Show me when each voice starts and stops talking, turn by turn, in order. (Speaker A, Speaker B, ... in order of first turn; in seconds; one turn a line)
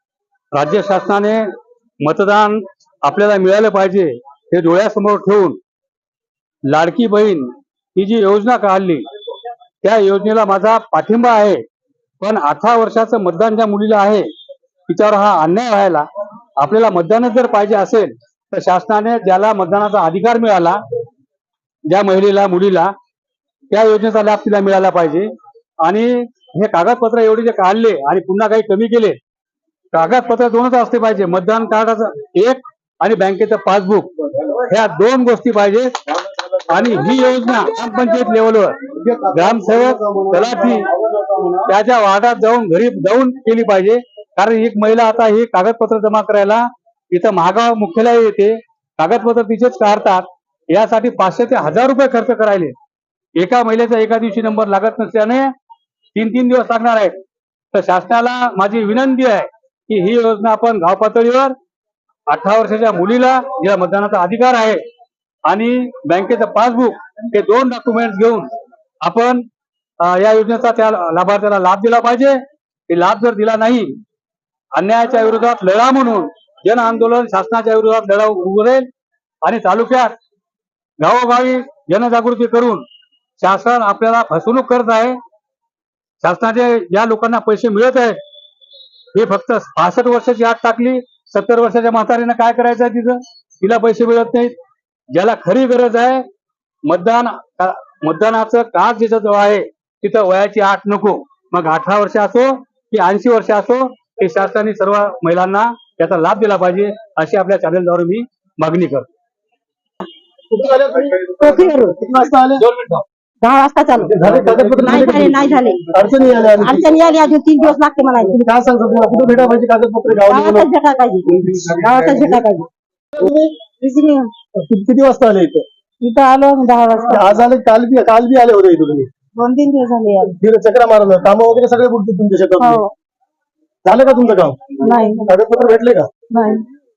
Speaker A: 0.5-1.5
Speaker A: 2.0-5.6
Speaker A: 6.7-9.1
Speaker A: 9.8-11.6
Speaker A: 12.2-14.3
Speaker A: 14.9-20.8
Speaker A: 21.9-22.9
Speaker A: 23.7-25.3
Speaker A: 25.8-29.2
Speaker A: 29.9-40.9
Speaker B: 39.1-41.6
Speaker A: 41.7-52.8
Speaker A: 53.4-55.5
Speaker A: 56.1-57.2
Speaker A: 57.7-61.5
Speaker A: 62.3-64.8
Speaker A: 65.5-68.5
Speaker A: 69.0-69.5
Speaker A: 70.0-74.0
Speaker A: 74.8-78.9
Speaker A: 79.4-80.2
Speaker A: 81.0-82.8
Speaker A: 83.4-85.2
Speaker A: 86.2-88.2
Speaker A: 89.1-94.5
Speaker A: 95.1-96.3
Speaker A: 96.9-109.1
Speaker B: 110.5-112.6
Speaker C: 111.4-112.0
Speaker A: 112.6-113.0
Speaker C: 113.4-115.8
Speaker B: 114.1-116.9
Speaker C: 116.6-118.4
Speaker B: 118.3-120.7
Speaker C: 120.3-122.7
Speaker B: 121.5-122.2
Speaker B: 123.2-123.5
Speaker C: 123.8-124.3
Speaker B: 124.6-125.7
Speaker C: 126.0-127.3
Speaker B: 127.1-129.1
Speaker C: 129.4-130.3
Speaker B: 130.2-132.8
Speaker C: 132.6-132.9
Speaker B: 133.8-134.8
Speaker C: 134.8-135.3
Speaker B: 135.3-136.1
Speaker C: 136.3-136.6